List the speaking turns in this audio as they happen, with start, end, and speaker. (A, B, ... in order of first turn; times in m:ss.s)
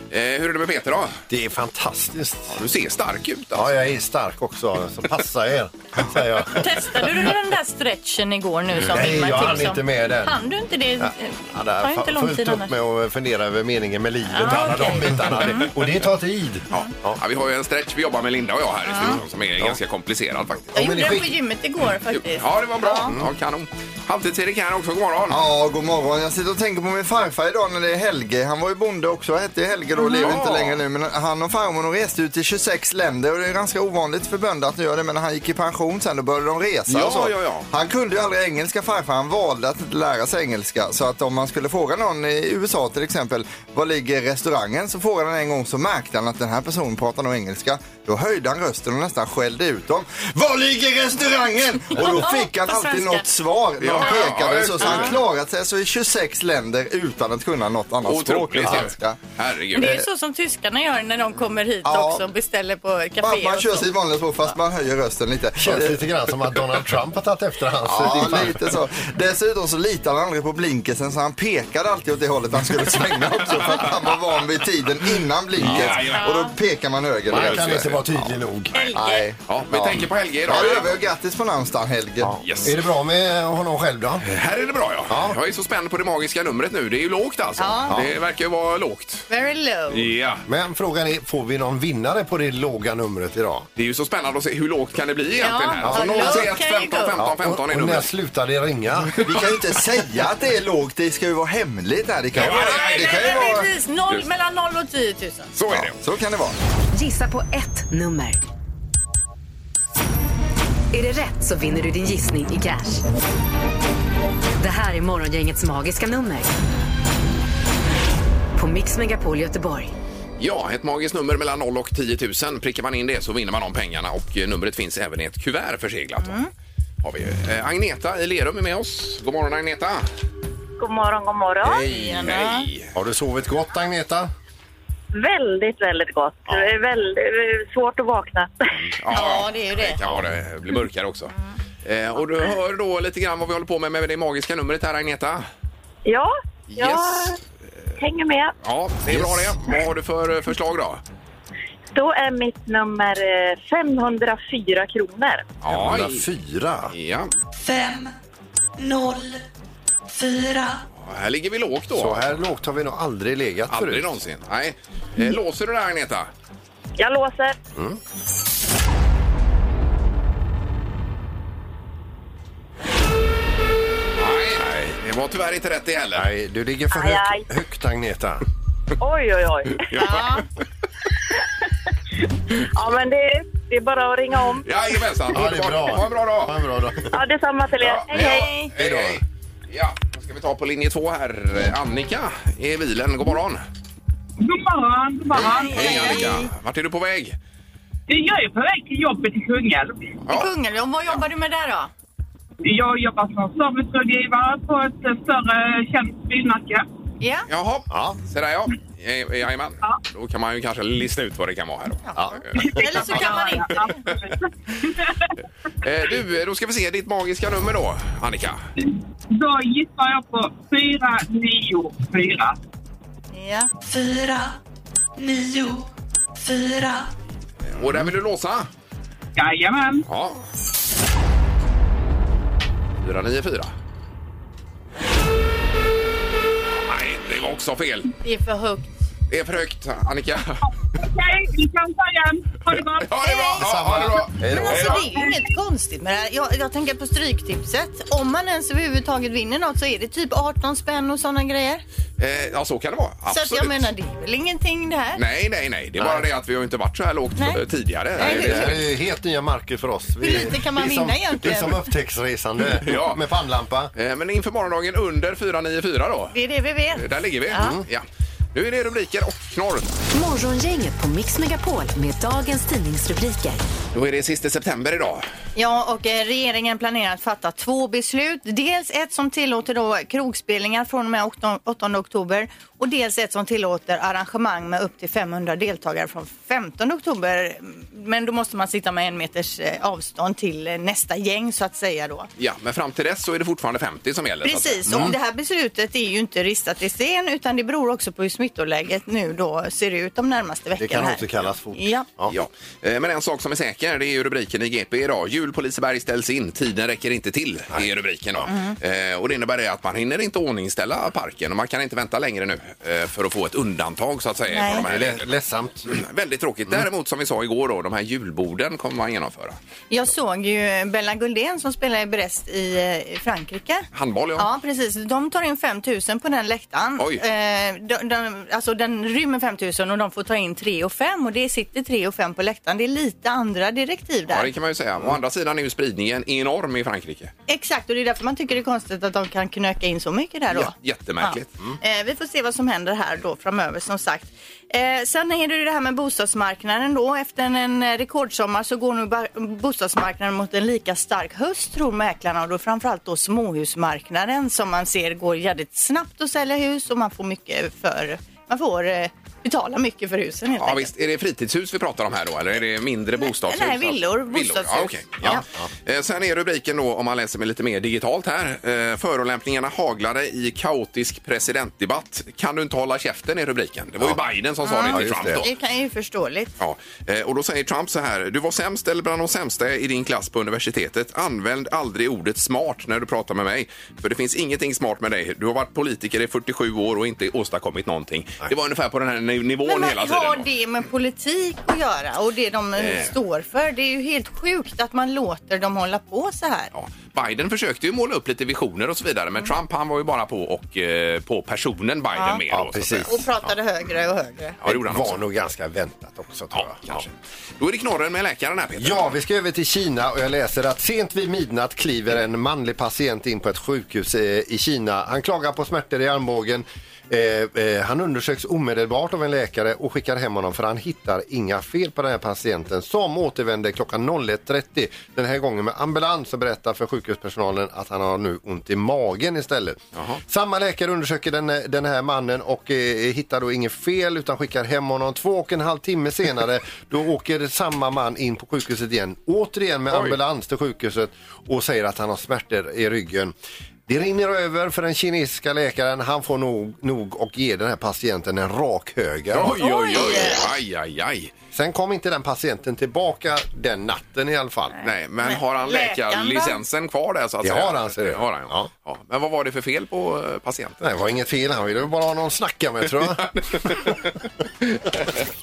0:00.1-0:01.2 A
0:01.3-0:02.6 B
0:02.5-0:03.8 A
0:03.5-0:07.1 B
0:06.5-0:12.7 C
0:08.8-0:10.4 B
0:11.0-0:17.2 B
0:14.3-0:15.7 C
0:14.5-0:15.3 A
0:16.7-0:20.7 A
0:18.9-0:19.2 C
0:20.7-0:21.4 B
0:20.7-0:23.1 C
0:22.1-0:25.4 A
0:25.3-0:59.2 D
0:30.0-0:30.3 C
0:30.2-0:30.8 A
0:36.9-0:37.7 A
0:51.9-0:53.2 C
0:53.8-0:55.2 A
0:54.8-0:55.1 C
0:58.0-1:00.0 A
0:59.7-1:03.9 C
0:59.8-1:00.0 D
1:01.8-1:02.3 D
1:03.2-1:06.0 D
1:05.6-1:08.8 B
1:07.9-1:18.3 D
1:08.0-1:08.5 A
1:12.7-1:13.9 B
1:15.6-1:16.2 B
1:15.6-1:16.4 A
1:16.1-1:16.5 C
1:17.3-1:18.7 B
1:17.3-1:17.9 A
1:18.7-1:19.2 C
1:18.9-1:22.4 D
1:19.5-1:21.0 A
1:22.2-1:24.2 B
1:22.4-1:22.8 A
1:24.2-1:29.3 A
1:25.1-1:25.4 B
1:27.6-1:28.0 C
1:29.3-1:30.1 C
1:29.9-1:30.4 A
1:30.4-1:33.7 B
1:33.8-1:38.1 A
1:35.4-1:37.2 C
1:35.8-1:36.5 B
1:37.2-1:39.3 B
1:39.2-1:43.7 D
1:42.3-1:43.5 A
1:42.4-1:45.5 C
1:45.6-1:46.0 A
1:45.7-1:46.5 D
1:46.9-1:48.4 E
1:50.9-1:53.0 E
1:54.6-1:56.5 E
1:58.6-1:59.9 E
2:00.4-2:06.4 A
2:06.2-2:06.5 C
2:07.0-2:10.0 A
2:10.8-2:11.8 F
2:11.6-2:12.3 B
2:11.8-2:12.7 C
2:12.2-2:12.9 A
2:12.9-2:14.3 B
2:15.1-2:18.5 F
2:16.5-2:16.7 B
2:19.0-2:21.3 A
2:19.1-2:20.0 C
2:21.8-2:25.4 A
2:26.0-2:27.4 F
2:26.7-2:27.4 A
2:28.0-2:28.5 F
2:28.6-2:31.0 A
2:29.1-2:29.7 B
2:31.9-2:35.5 F
2:35.6-2:36.2 A
2:35.6-2:36.9 B
2:36.9-2:37.3 A
2:37.6-2:38.1 G
2:38.8-2:39.4 G
2:40.1-2:40.8 G
2:41.0-2:42.4 A
2:41.9-2:44.2 B
2:43.7-2:46.3 A
2:47.0-2:47.5 F
2:54.2-2:56.3 A
2:56.1-2:58.4 B
2:56.9-2:57.4 F
2:59.0-3:00.0 F
2:59.9-3:00.4 A
3:00.0-3:00.4 C
3:02.7-3:04.6 F
3:04.6-3:06.6 A
3:05.3-3:07.2 B
3:07.1-3:08.5 F
3:07.8-3:13.6 A
3:08.1-3:08.7 C
3:08.7-3:09.2 B
3:14.4-3:16.3 H
3:15.3-3:17.4 A
3:15.4-3:16.5 C
3:18.1-3:20.1 H
3:20.3-3:21.9 C
3:22.6-3:26.8 H
3:27.2-3:27.4 C
3:27.5-3:34.1 A
3:27.9-3:28.2 B
3:32.1-3:34.0 C
3:32.2-3:32.4 B
3:32.6-3:35.1 H
3:35.8-3:38.6 A
3:38.8-3:42.6 H
3:43.3-3:43.7 C
3:43.8-3:44.6 G
3:45.2-3:47.1 G
3:47.6-3:48.7 A
3:49.4-3:50.0 H
3:50.0-3:50.4 A
3:53.0-3:53.7 A
3:56.7-3:58.1 A
3:58.2-3:58.9 C
3:59.3-4:00.6 A
4:01.0-4:03.1 H
4:02.7-4:05.0 A
4:03.2-4:03.6 C
4:03.6-4:04.9 B
4:04.4-4:11.8 C
4:04.9-4:05.4 H
4:12.2-4:13.9 A
4:13.3-4:15.2 C
4:15.1-4:18.8 A
4:16.0-4:16.2 B
4:18.2-4:18.8 C
4:18.2-4:23.9 B
4:20.2-4:21.9 C
4:22.8-4:23.2 A
4:23.9-4:26.4 A
4:26.3-4:27.7 C
4:26.9-4:29.9 A
4:27.5-4:27.8 B
4:30.1-4:33.6 E
4:33.9-4:35.2 A
4:35.6-4:52.3 C
4:52.4-4:55.1 A
4:54.4-5:02.1 C
4:54.9-4:55.2 B
5:00.8-5:02.3 B
5:02.3-5:15.3 A
5:08.4-5:08.8 C
5:14.5-5:14.8 C
5:14.7-5:15.9 B
5:15.9-5:19.6 A
5:19.9-5:23.8 C
5:23.9-5:24.5 A
5:24.4-5:34.5 C
5:27.0-5:27.2 A
5:34.3-5:37.3 A
5:37.5-6:00.9 C
5:40.5-5:41.5 A
6:00.6-6:15.5 A
6:03.2-6:05.4 C
6:05.2-6:05.7 B
6:14.6-6:16.5 C
6:14.9-6:15.4 B
6:16.6-6:30.4 A
6:29.6-6:36.7 C
6:32.8-6:33.1 A
6:36.7-6:43.2 A
6:42.1-6:42.4 C
6:42.5-6:43.2 B
6:43.0-6:44.6 C
6:44.6-6:45.2 A
6:44.6-6:47.0 B
6:46.5-6:49.1 A
6:48.8-7:23.3 B
7:19.9-7:20.2 A
7:23.9-7:29.6 B
7:29.3-7:31.3 A
7:29.6-7:30.4 C
7:31.5-7:34.8 B
7:34.8-7:40.8 A
7:35.2-7:36.6 C
7:37.4-7:38.7 B
7:40.8-7:43.9 B
7:43.1-7:44.1 A
7:44.6-7:45.1 A